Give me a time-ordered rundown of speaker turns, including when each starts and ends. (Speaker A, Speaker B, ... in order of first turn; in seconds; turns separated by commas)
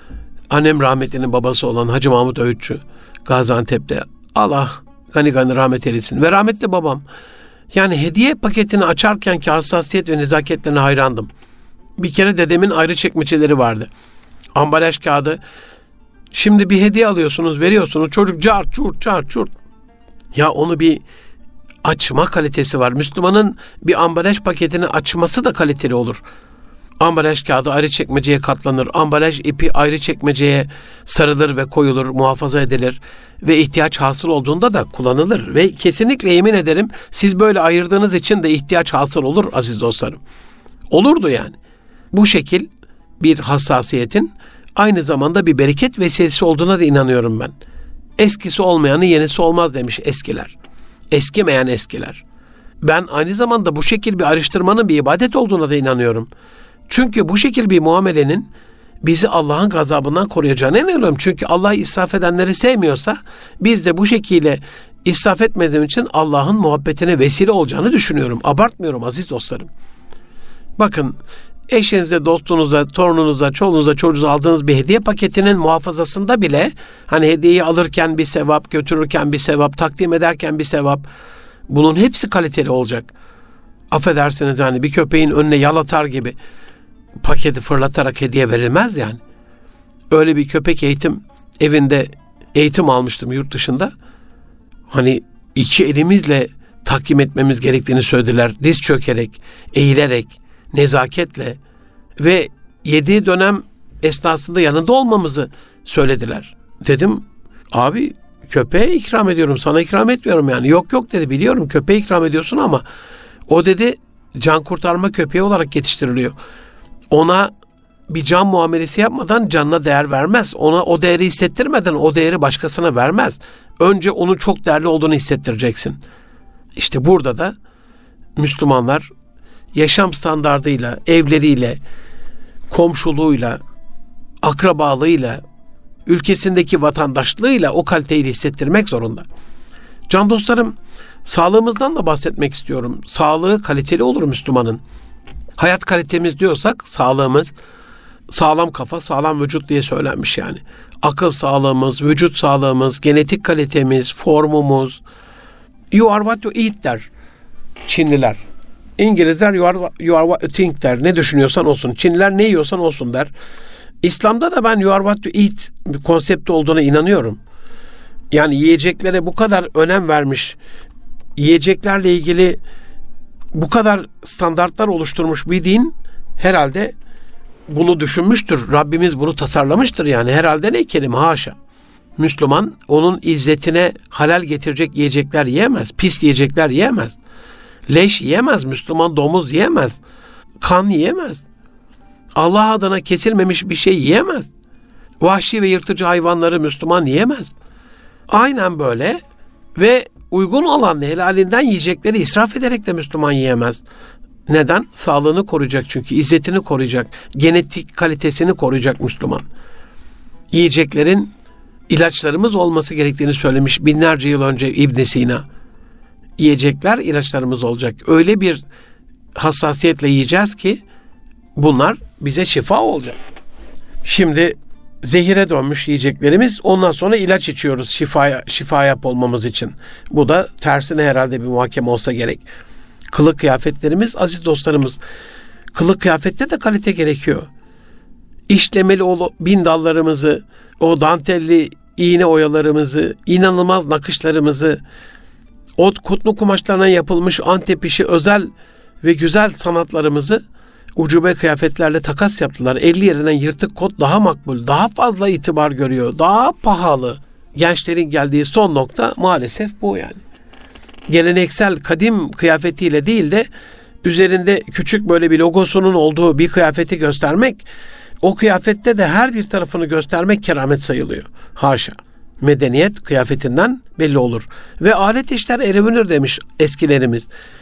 Speaker A: 0.5-7.0, Speaker A: 7.7-11.3, Speaker A: 12.0-13.9, Speaker A: 14.5-15.4, Speaker A: 16.3-19.5, Speaker A: 20.3-21.0, Speaker A: 21.8-26.2, Speaker A: 27.0-40.2, Speaker A: 40.9-41.6, Speaker A: 42.1-42.7, Speaker A: 43.2-47.5, Speaker A: 48.2-50.5, Speaker A: 51.1-52.2, Speaker A: 52.8-56.3, Speaker A: 56.9-58.5, Speaker A: 59.0-69.7, Speaker A: 70.8-71.2, Speaker A: 71.7-81.1, Speaker A: 81.7-83.1, Speaker A: 83.9-86.3, Speaker A: 87.2-89.2, Speaker A: 90.1-93.9, Speaker A: 94.9-101.6, Speaker A: 102.2-112.8, Speaker A: 113.5-116.3, Speaker A: 117.1-117.5, Speaker A: 118.1-126.0, Speaker A: 126.8-127.5, Speaker A: 128.4-129.1, Speaker A: 129.7-131.8, Speaker A: 132.7-133.6, Speaker A: 134.4-135.4, Speaker A: 136.1-139.2, Speaker A: 140.1-140.7, Speaker A: 141.2-144.8, Speaker A: 145.6-147.5, Speaker A: 148.3-155.0, Speaker A: 155.9-157.1, Speaker A: 157.8-158.4, Speaker A: 159.0-163.3, Speaker A: 164.0-167.4, Speaker A: 168.3-170.6, Speaker A: 171.4-172.6, Speaker A: 173.5-176.9, Speaker A: 177.7-181.5, Speaker A: 182.2-187.2, Speaker A: 187.9-190.0, Speaker A: 190.6-191.4, Speaker A: 192.3-194.5, Speaker A: 195.2-197.5, Speaker A: 198.3-199.2, Speaker A: 199.8-203.8, Speaker A: 204.5-209.4, Speaker A: 210.5-211.3, Speaker A: 211.9-215.4, Speaker A: 216.4-218.6, Speaker A: 219.3-220.8, Speaker A: 221.6-223.2, Speaker A: 224.0-232.4, Speaker A: 233.1-235.0, Speaker A: 235.7-237.5, Speaker A: 238.5-244.8, Speaker A: 245.8-248.5, Speaker A: 249.0-250.4, Speaker A: 250.9-260.2, Speaker A: 261.1-263.5, Speaker A: 264.0-267.6, Speaker A: 268.2-277.3